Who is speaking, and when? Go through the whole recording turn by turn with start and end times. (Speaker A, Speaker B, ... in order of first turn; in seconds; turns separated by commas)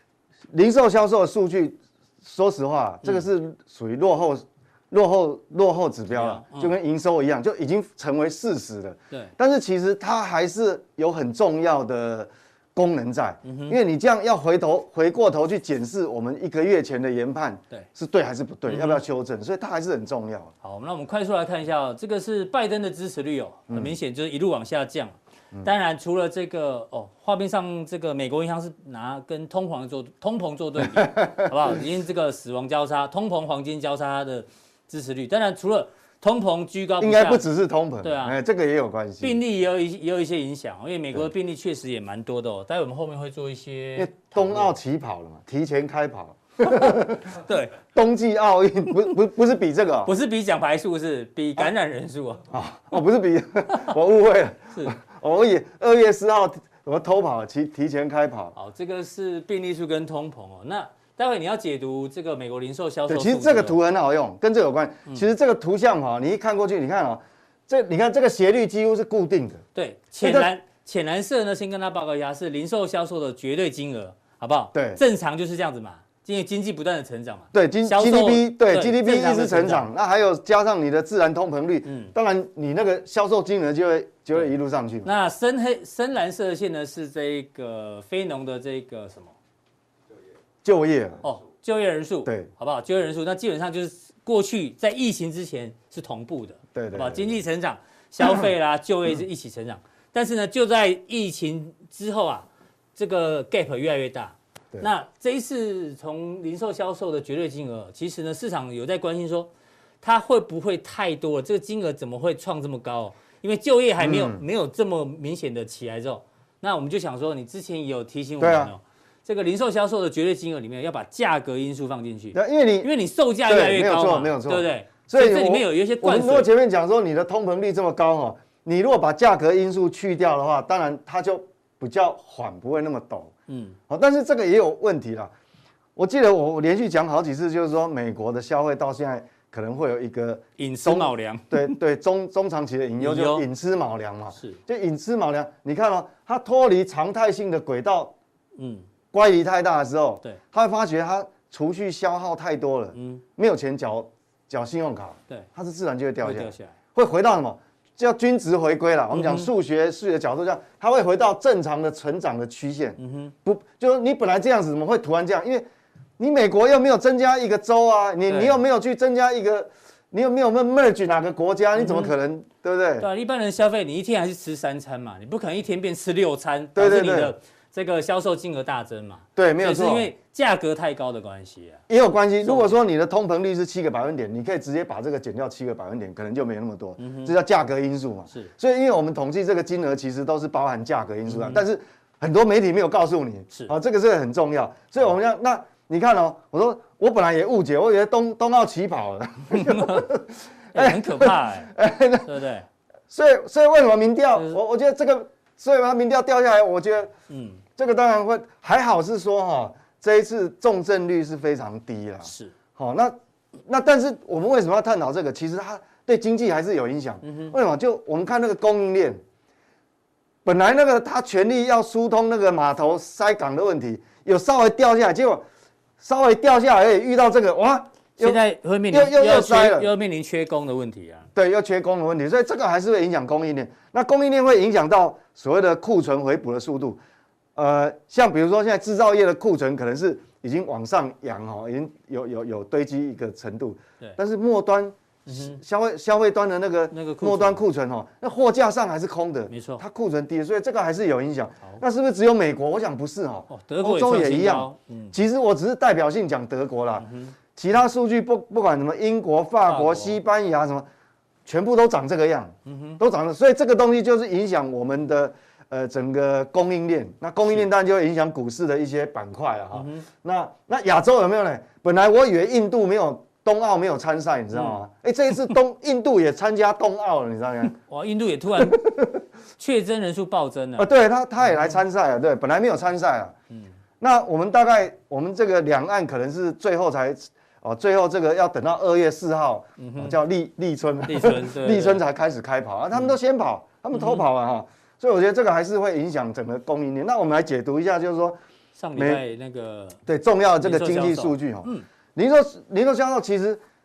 Speaker A: 0.5-20.5, Speaker B: 6.1-6.8, Speaker B: 13.4-13.8, Speaker B: 18.7-19.0, Speaker B: 20.6-37.5, Speaker A: 23.7-23.9, Speaker A: 30.9-31.5, Speaker A: 37.0-39.4, Speaker B: 38.0-38.4, Speaker B: 39.2-44.8, Speaker A: 44.0-47.4, Speaker B: 46.6-47.8, Speaker A: 47.9-50.1, Speaker B: 50.1-52.5, Speaker A: 52.5-58.5, Speaker B: 58.5-63.8, Speaker A: 63.1-69.6, Speaker B: 69.8-79.9, Speaker A: 70.2-70.5, Speaker A: 74.7-75.0, Speaker A: 77.5-85.1, Speaker B: 81.8-82.1, Speaker B: 85.0-89.3, Speaker A: 90.6-91.2, Speaker B: 91.2-109.5, Speaker A: 96.8-97.3, Speaker B: 110.0-126.5, Speaker A: 114.0-114.4, Speaker A: 118.4-118.7, Speaker A: 122.3-122.9, Speaker A: 123.5-133.3, Speaker B: 133.5-133.8, Speaker A: 133.9-135.3, Speaker A: 136.0-148.1, Speaker B: 140.6-141.8, Speaker B: 143.0-143.4, Speaker B: 148.6-148.9, Speaker A: 149.1-165.7, Speaker B: 152.9-153.2, Speaker B: 156.2-156.8, Speaker B: 159.1-159.5, Speaker B: 163.0-163.3, Speaker A: 166.2-173.1, Speaker B: 168.3-168.6, Speaker B: 171.8-172.2, Speaker B: 173.0-181.8, Speaker A: 176.8-177.3, Speaker A: 179.4-180.1, Speaker A: 181.9-202.3, Speaker B: 182.4-182.8, Speaker B: 187.0-187.3, Speaker B: 191.2-191.6, Speaker B: 199.5-200.1, Speaker B: 200.7-201.7, Speaker B: 202.2-202.7, Speaker A: 203.1-207.1, Speaker B: 204.3-204.6, Speaker B: 207.3-207.6, Speaker A: 207.8-213.2, Speaker B: 212.2-212.5, Speaker A: 213.7-219.2, Speaker B: 217.2-217.5, Speaker A: 220.4-225.4, Speaker A: 226.0-228.4, Speaker B: 228.2-231.3, Speaker A: 228.9-229.9, Speaker A: 231.3-237.0, Speaker A: 237.6-260.9, Speaker B: 245.3-245.6, Speaker B: 246.9-247.7, Speaker B: 249.5-249.8, Speaker B: 253.5-255.2, Speaker B: 257.0-257.4, Speaker B: 259.7-260.2, Speaker A: 261.5-277.8, Speaker B: 262.7-263.0, Speaker B: 269.7-270.1, Speaker B: 274.5-274.8, Speaker B: 277.8-278.8, Speaker A: 278.6-279.2, Speaker B: 279.6-280.9, Speaker A: 280.8-283.3, Speaker B: 281.4-281.8, Speaker A: 284.0-298.4, Speaker B: 289.8-290.2, Speaker B: 291.1-292.0, Speaker B: 293.9-294.2, Speaker B: 298.8-300.0, Speaker A: 298.9-299.2, Speaker A: 300.1-303.6, Speaker B: 300.6-301.9